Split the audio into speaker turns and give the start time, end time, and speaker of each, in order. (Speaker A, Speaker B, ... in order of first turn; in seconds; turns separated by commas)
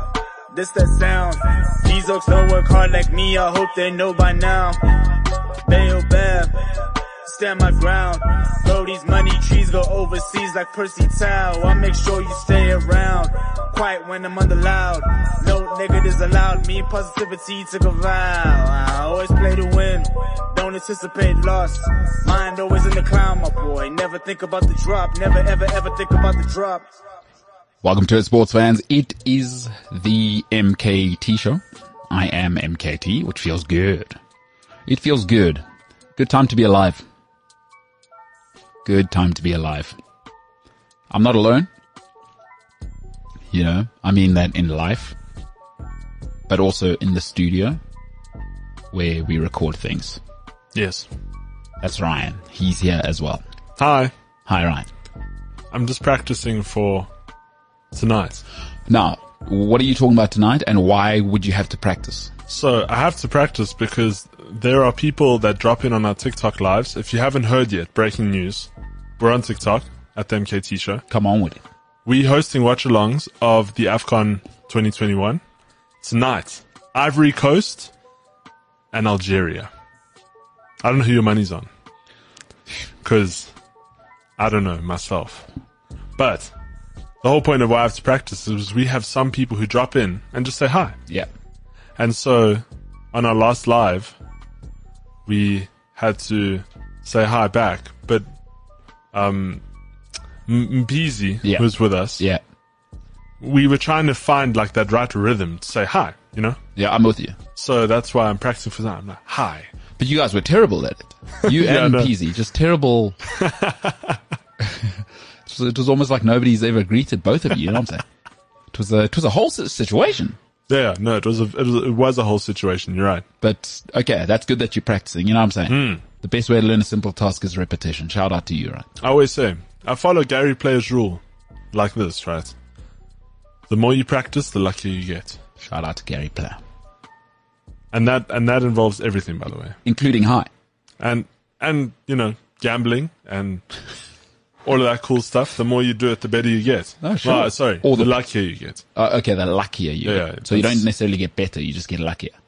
Speaker A: 0.5-4.8, Speaker A: 5.7-6.6, Speaker A: 7.2-26.9, Speaker B: 27.8-34.2, Speaker B: 34.9-35.6, Speaker B: 36.2-37.0, Speaker B: 38.9-40.0, Speaker B: 41.1-41.7, Speaker B: 43.5-45.2, Speaker B: 46.5-47.8, Speaker B: 48.9-50.2, Speaker C: 50.8-51.1, Speaker B: 51.8-53.4, Speaker C: 53.8-54.1, Speaker B: 54.5-54.9, Speaker C: 55.7-57.1, Speaker C: 57.9-58.4, Speaker B: 58.9-62.3, Speaker C: 62.5-71.0, Speaker B: 71.1-71.6, Speaker C: 72.1-75.4, Speaker C: 76.0-77.9, Speaker C: 78.9-79.7, Speaker C: 80.8-81.7, Speaker C: 83.0-83.5, Speaker C: 84.4-85.5, Speaker C: 86.2-86.5, Speaker C: 87.2-91.0, Speaker C: 92.0-94.2, Speaker C: 95.3-98.2, Speaker C: 99.1-99.6, Speaker C: 100.5-102.3, Speaker B: 101.4-102.4, Speaker C: 103.4-106.6, Speaker B: 106.8-107.4, Speaker C: 107.5-109.7, Speaker B: 110.0-113.2, Speaker C: 111.4-112.1, Speaker C: 113.2-114.2, Speaker B: 114.6-118.0, Speaker B: 118.7-120.4, Speaker C: 120.7-123.2, Speaker B: 123.4-128.9, Speaker C: 125.7-126.0, Speaker C: 129.0-132.6, Speaker C: 133.7-135.4, Speaker B: 135.6-136.6, Speaker C: 137.9-139.8, Speaker B: 139.8-140.5, Speaker C: 141.0-143.7, Speaker C: 144.7-148.8, Speaker B: 147.0-148.1, Speaker B: 148.9-152.3, Speaker C: 150.0-150.9